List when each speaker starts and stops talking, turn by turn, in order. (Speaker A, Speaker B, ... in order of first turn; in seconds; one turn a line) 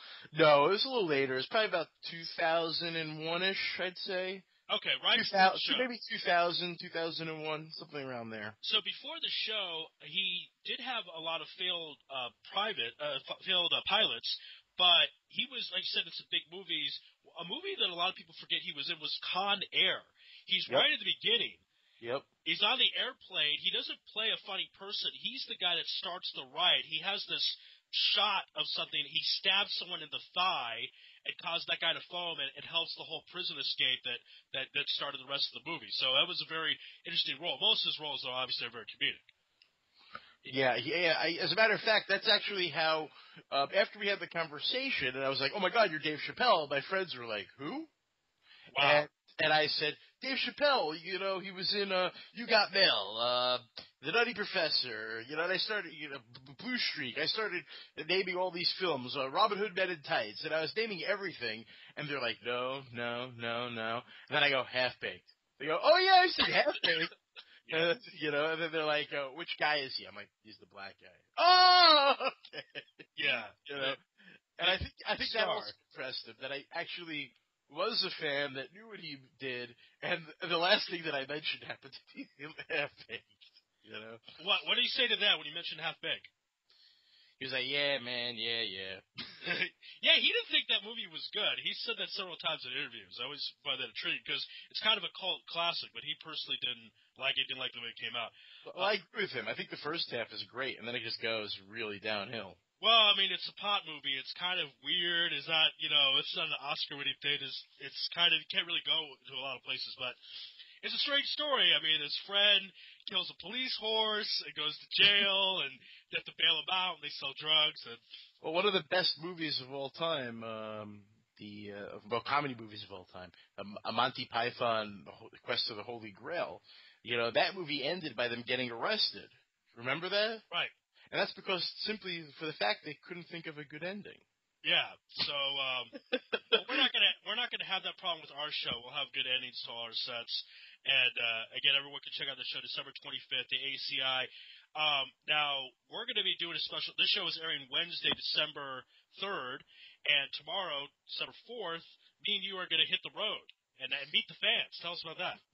Speaker A: 0.3-4.5
Speaker B: 4.7-5.9
Speaker A: 5.1-8.6
Speaker B: 8.6-21.6
Speaker A: 22.0-22.3
Speaker B: 22.4-39.2
Speaker A: 40.4-47.9
Speaker B: 48.7-49.1
Speaker A: 48.8-67.1
Speaker A: 67.7-74.0
Speaker B: 73.2-74.0
Speaker A: 74.6-84.2
Speaker B: 74.6-75.7
Speaker B: 84.4-86.3
Speaker A: 87.4-89.0
Speaker B: 89.4-98.9
Speaker A: 98.7-102.6
Speaker B: 102.8-110.2
Speaker B: 110.8-118.0
Speaker A: 118.4-130.4
Speaker A: 131.1-134.2
Speaker B: 134.6-135.9
Speaker A: 136.1-136.7
Speaker B: 136.5-155.4